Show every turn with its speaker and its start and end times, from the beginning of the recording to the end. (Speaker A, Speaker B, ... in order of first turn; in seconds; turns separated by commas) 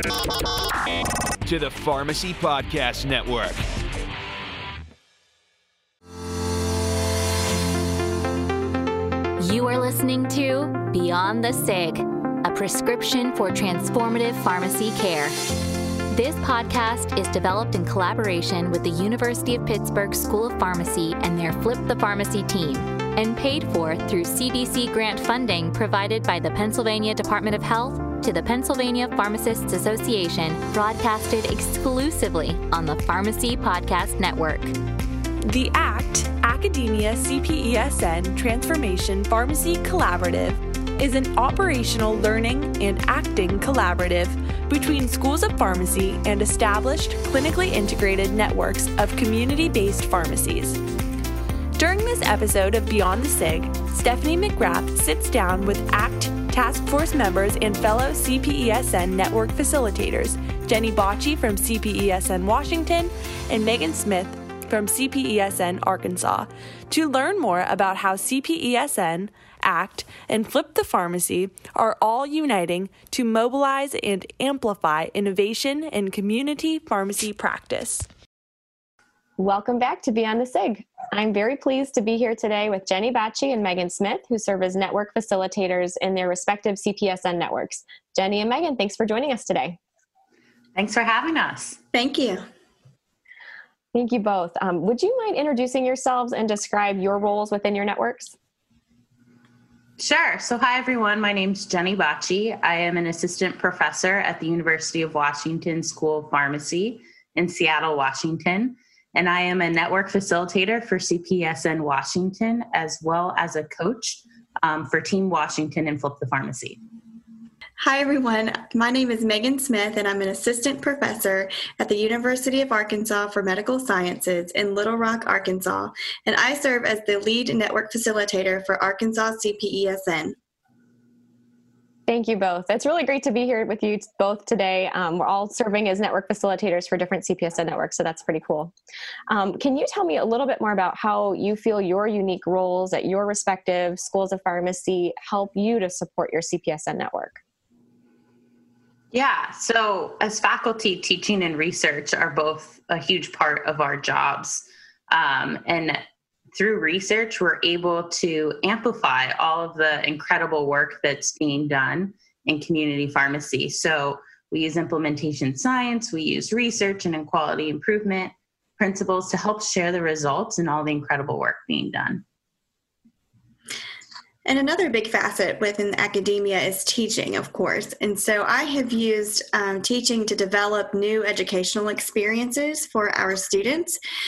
Speaker A: 1.5-3.6, Speaker B: 9.4-15.3, Speaker B: 16.1-34.7, Speaker C: 35.5-50.8, Speaker C: 51.8-78.1, Speaker D: 79.4-89.8, Speaker E: 90.8-91.8, Speaker F: 91.9-92.4, Speaker D: 93.9-98.3, Speaker E: 100.0-116.8, Speaker F: 117.8-130.3, Speaker D: 132.1-138.7, Speaker D: 139.3-147.4, Speaker E: 149.1-156.0, Speaker E: 156.5-172.2, Speaker F: 174.4-184.0